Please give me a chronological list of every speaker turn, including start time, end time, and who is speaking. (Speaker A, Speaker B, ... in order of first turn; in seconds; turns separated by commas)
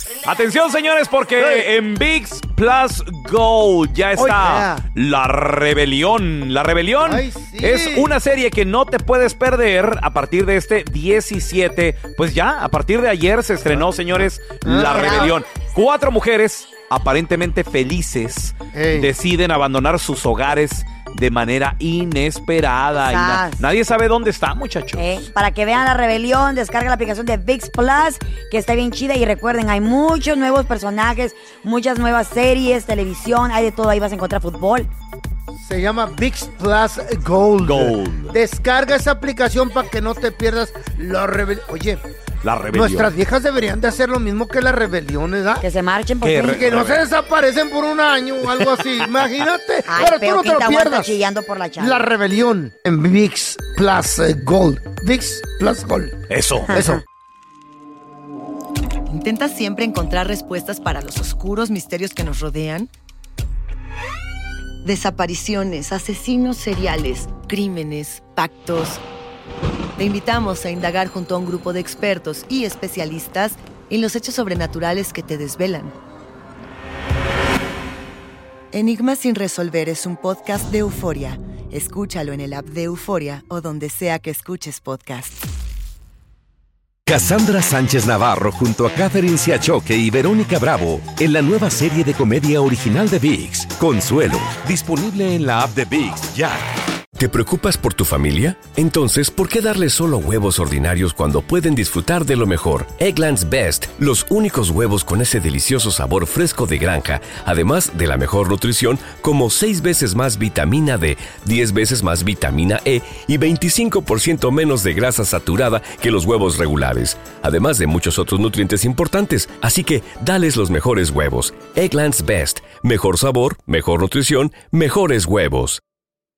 Speaker A: 0.2-25.2, Speaker B: 1.4-1.6, Speaker B: 4.2-4.8, Speaker B: 7.0-8.1, Speaker B: 14.6-15.3, Speaker C: 14.9-15.3, Speaker B: 18.7-19.1, Speaker C: 23.0-23.6, Speaker C: 25.0-34.9, Speaker B: 35.6-42.0, Speaker A: 37.6-38.4, Speaker A: 42.4-43.1, Speaker B: 42.7-45.6, Speaker C: 45.6-46.6, Speaker A: 46.2-47.0, Speaker B: 46.4-51.1, Speaker C: 49.9-52.0, Speaker B: 51.8-56.2, Speaker A: 56.3-56.8, Speaker C: 56.7-57.0, Speaker B: 56.7-57.0, Speaker D: 59.1-62.9, Speaker D: 64.8-69.0, Speaker D: 70.0-75.9, Speaker D: 78.7-85.4, Speaker E: 87.0-96.6, Speaker F: 97.2-125.8